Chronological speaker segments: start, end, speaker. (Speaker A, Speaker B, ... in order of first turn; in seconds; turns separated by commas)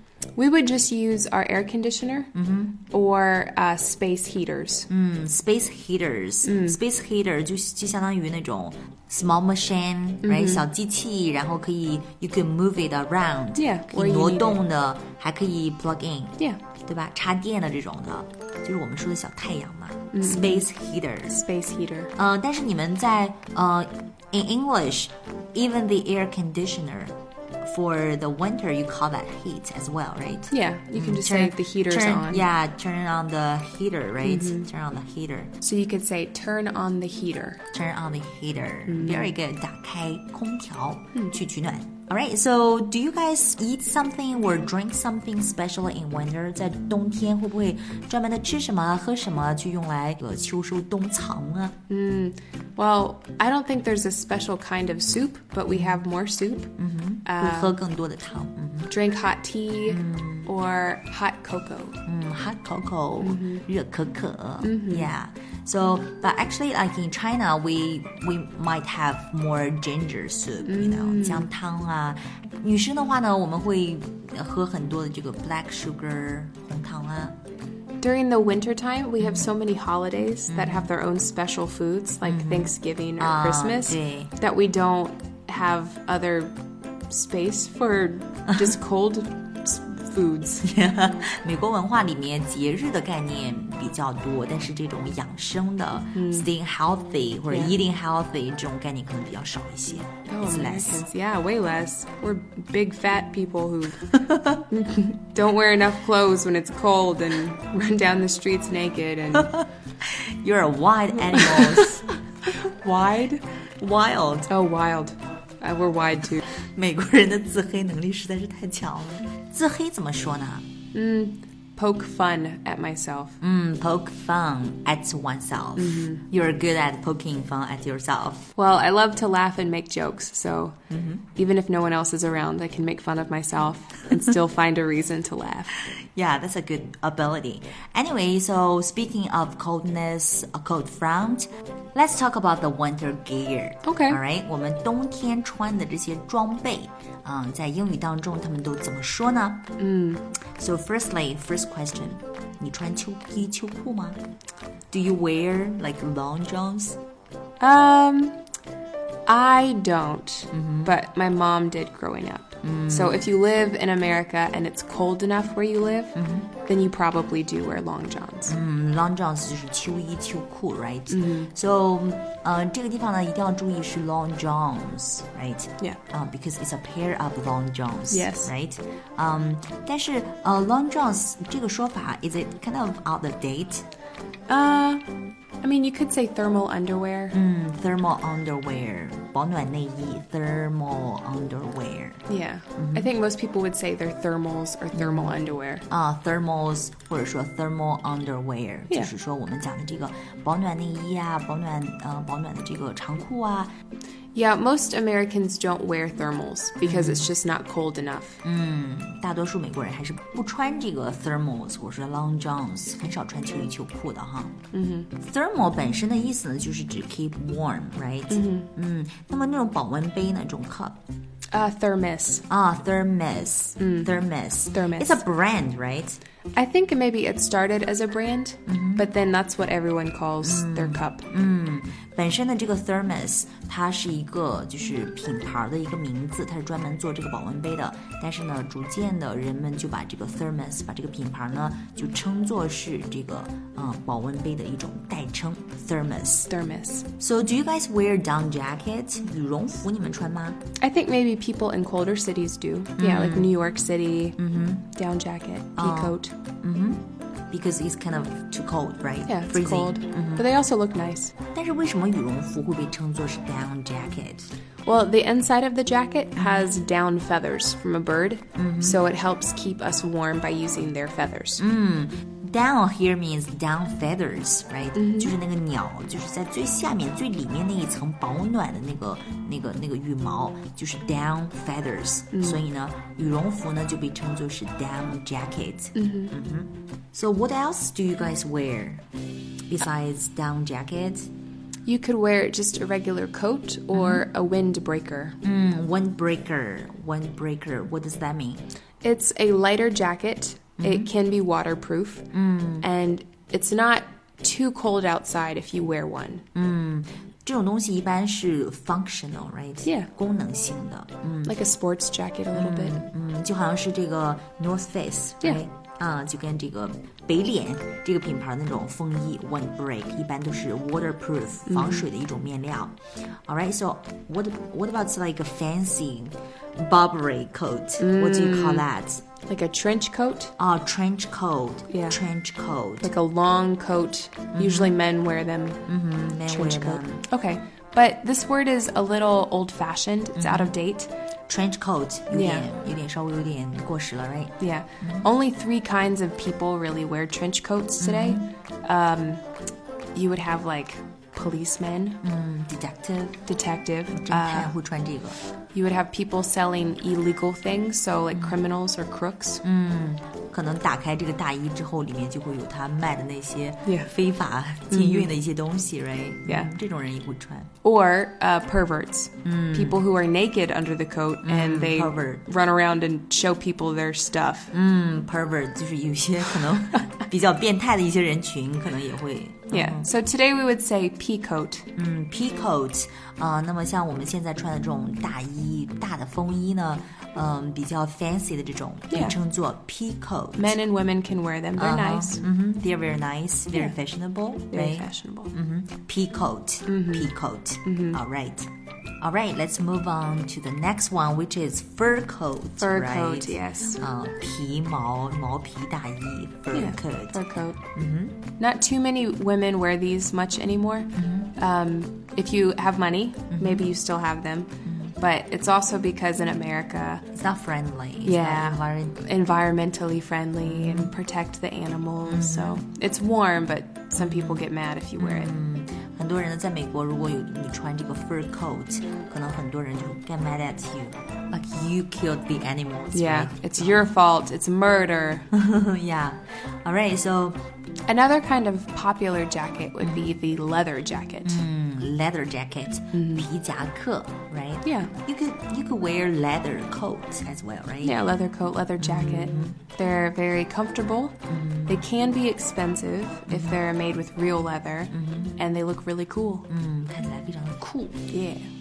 Speaker A: 0.4-2.3, Speaker B: 2.3-2.8, Speaker A: 2.9-4.9, Speaker B: 4.9-21.4, Speaker A: 6.4-6.8, Speaker A: 10.2-10.7, Speaker A: 13.6-14.6, Speaker A: 20.1-20.7, Speaker A: 21.3-22.1, Speaker B: 22.2-35.5, Speaker A: 30.5-32.5, Speaker A: 34.2-34.7, Speaker A: 35.6-37.6, Speaker B: 37.7-51.8, Speaker A: 38.9-39.3, Speaker A: 51.9-56.7, Speaker B: 55.7-56.0, Speaker B: 56.8-58.9, Speaker A: 57.2-57.8, Speaker A: 58.9-62.0, Speaker B: 59.9-60.5, Speaker B: 62.0-77.4, Speaker A: 63.2-63.6, Speaker A: 64.6-65.1, Speaker A: 70.7-71.5, Speaker A: 78.0-86.5, Speaker B: 79.2-79.5, Speaker B: 80.5-80.9, Speaker B: 82.2-84.3, Speaker A: 87.1-90.8, Speaker B: 90.6-101.0, Speaker A: 96.2-96.5, Speaker A: 97.5-97.8, Speaker A: 100.3-109.6, Speaker B: 104.1-104.6, Speaker B: 109.3-112.1, Speaker A: 111.3-113.5, Speaker B: 113.8-114.5, Speaker A: 114.5-116.5, Speaker B: 116.6-120.7, Speaker A: 120.9-123.4, Speaker B: 123.4-128.5, Speaker A: 125.8-126.2, Speaker A: 128.6-130.8, Speaker B: 130.9-131.3, Speaker A: 131.4-135.9, Speaker B: 136.1-149.7, Speaker A: 143.8-144.2, Speaker A: 149.8-150.3, Speaker B: 150.6-154.2, Speaker B: 154.9-157.0, Speaker A: 157.6-158.4, Speaker A: 159.3-168.6, Speaker B: 160.5-161.0, Speaker B: 162.6-163.3, Speaker B: 166.2-166.5, Speaker B: 168.5-183.8, Speaker A: 171.1-171.5, Speaker A: 178.1-178.5, Speaker A: 184.5-185.1, Speaker A: 185.6-187.4, Speaker B: 187.3-192.2, Speaker A: 192.3-195.8, Speaker B: 192.8-193.1, Speaker B: 194.9-203.7, Speaker A: 204.3-208.4, Speaker B: 206.8-207.3, Speaker B: 208.4-214.6, Speaker A: 214.7-215.1, Speaker B: 215.2-221.0, Speaker A: 218.3-218.7, Speaker A: 221.5-222.4, Speaker B: 222.5-226.2, Speaker A: 223.8-224.2, Speaker A: 224.7-225.2, Speaker A: 226.6-231.3, Speaker B: 228.7-229.1, Speaker B: 230.4-246.5, Speaker A: 246.5-247.1, Speaker B: 247.2-250.6, Speaker A: 250.8-254.4, Speaker B: 253.0-253.6, Speaker B: 254.4-254.9, Speaker A: 254.9-256.3, Speaker B: 255.8-260.4, Speaker A: 259.3-261.3, Speaker B: 261.5-264.5, Speaker A: 264.9-271.6, Speaker B: 266.4-266.7, Speaker B: 268.6-269.0, Speaker B: 271.6-289.0, Speaker A: 274.9-275.3, Speaker A: 282.3-282.6, Speaker A: 285.9-286.4, Speaker B: 289.7-291.3, Speaker A: 291.9-295.4, Speaker B: 293.9-294.3, Speaker B: 295.4-298.6, Speaker A: 299.0-302.3, Speaker B: 300.8-301.1, Speaker B: 302.3-302.9, Speaker A: 302.8-306.4, Speaker B: 306.5-311.6, Speaker A: 309.8-310.1, Speaker A: 311.4-313.0, Speaker B: 312.5-329.2, Speaker A: 321.7-322.1, Speaker A: 328.0-328.9, Speaker A: 329.4-330.5, Speaker B: 330.6-333.1, Speaker A: 331.9-332.2, Speaker A: 333.0-335.8, Speaker B: 334.6-335.0, Speaker B: 335.9-337.3, Speaker A: 336.5-341.1, Speaker B: 340.4-340.7, Speaker B: 341.5-345.3, Speaker A: 342.3-342.7, Speaker A: 344.6-349.4, Speaker B: 348.0-348.5, Speaker A: 350.1-352.2, Speaker B: 352.2-353.4, Speaker A: 353.5-354.8, Speaker B: 354.1-355.4, Speaker A: 355.7-359.6, Speaker B: 358.3-358.6, Speaker B: 359.6-367.7, Speaker A: 363.9-364.1, Speaker A: 364.9-365.3, Speaker A: 366.4-366.7, Speaker A: 367.8-374.7, Speaker B: 369.4-370.0, Speaker B: 371.4-372.4, Speaker B: 374.7-380.1, Speaker A: 379.7-381.9, Speaker B: 382.0-390.8, Speaker A: 389.1-389.4, Speaker A: 390.6-392.4, Speaker B: 391.8-398.7, Speaker A: 394.7-395.5, Speaker A: 396.9-397.3, Speaker A: 397.9-398.2, Speaker B: 399.2-407.4, Speaker A: 402.8-404.0, Speaker A: 406.7-407.8, Speaker B: 407.9-408.5, Speaker A: 408.6-417.2, Speaker B: 411.1-411.5, Speaker B: 413.5-413.9, Speaker B: 414.8-415.1, Speaker B: 417.3-419.2, Speaker A: 418.2-425.5, Speaker B: 420.6-421.1, Speaker B: 422.3-422.8, Speaker B: 424.2-424.6, Speaker B: 425.2-434.0, Speaker A: 433.1-435.5, Speaker B: 435.5-437.6, Speaker A: 438.1-441.6, Speaker B: 440.0-440.4, Speaker B: 441.4-448.2, Speaker A: 443.1-443.5, Speaker A: 444.8-445.1, Speaker A: 448.0-456.7, Speaker B: 449.0-449.8, Speaker B: 451.5-452.1, Speaker B: 453.5-453.8, Speaker B: 455.1-455.6, Speaker B: 456.7-458.2, Speaker A: 458.3-458.7